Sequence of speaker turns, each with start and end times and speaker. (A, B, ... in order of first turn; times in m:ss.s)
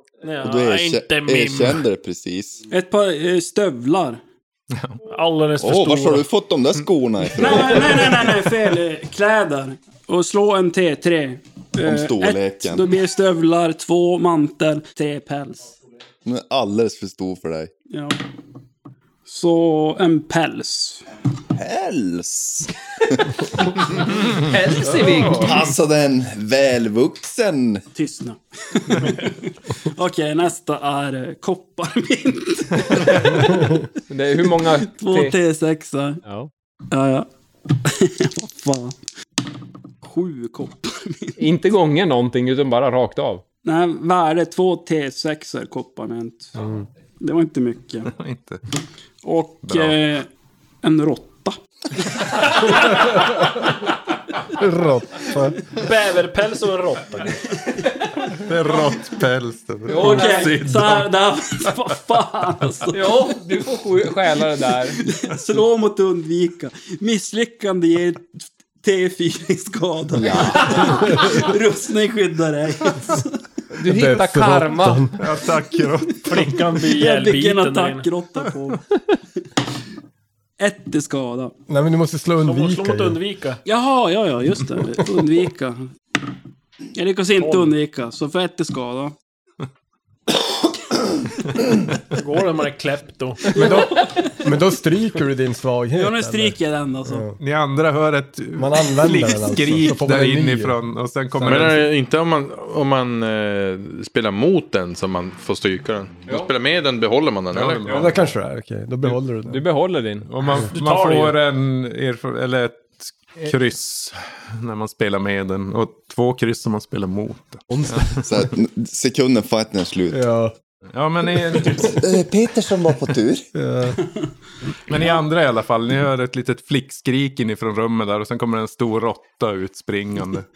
0:00.2-0:01.8 A
0:00.4-0:02.6 B
0:02.7-0:04.2 C
0:05.1-0:06.3 A
0:05.6-0:08.4 B
0:07.3-0:15.7 C
0:11.8-0:12.9 B
0:16.2-0:17.7 B
0:17.9-0:18.2 C
0:19.2-0:21.0 C
0:21.5-0:24.0 B
0:24.3-0:25.6 D
0:24.9-0:27.8 B
0:27.9-0:33.6 C
0:34.1-0:35.3 D
0:34.8-0:36.2 C
0:36.2-0:36.5 D
0:36.9-0:37.3 C
0:37.8-0:39.0 C
0:40.0-0:41.3 C
0:41.4-0:43.4 D
0:43.6-0:46.5 C
0:46.6-0:46.8 E
0:47.2-0:48.1 C
0:48.1-0:48.6 F
0:49.2-0:50.3 C
0:49.6-0:50.0 F
0:50.8-0:51.6 C
0:52.1-0:53.0 C
0:54.5-0:55.6 E
0:55.7-0:57.3 A
0:58.4-1:01.1 F
0:59.8-1:00.7 D
0:59.9-1:03.1 C
1:02.9-1:05.0 D
1:05.0-1:13.4 C
1:13.7-1:15.2 D
1:13.8-1:15.1 E
1:15.2-1:16.6 F
1:16.2-1:18.0 A
1:16.8-1:18.8 C
1:20.6-1:21.5 C
1:21.7-1:23.2 E
1:22.4-1:23.6 A
1:23.6-1:25.9 C
1:26.9-1:29.1 C
1:27.4-1:27.7 A
1:32.1-1:33.8 A
1:33.5-1:37.4 E
1:36.0-1:37.2 C
1:37.4-1:41.8 F
1:38.6-1:40.8 E
1:41.4-1:41.7 E
1:41.4-1:47.9 G
1:46.3-1:46.5 D
1:47.5-1:48.2 F
1:47.9-1:48.1 D
1:47.9-1:49.6 E
1:49.4-1:50.3 D
1:50.2-1:58.2 F
1:50.5-1:51.4 A
1:57.7-1:58.2 D
1:58.2-2:00.2 B
2:00.1-2:00.5 E
2:00.9-2:02.2 F
2:01.8-2:03.5 B
2:03.5-2:04.0 E
2:04.9-2:10.5 F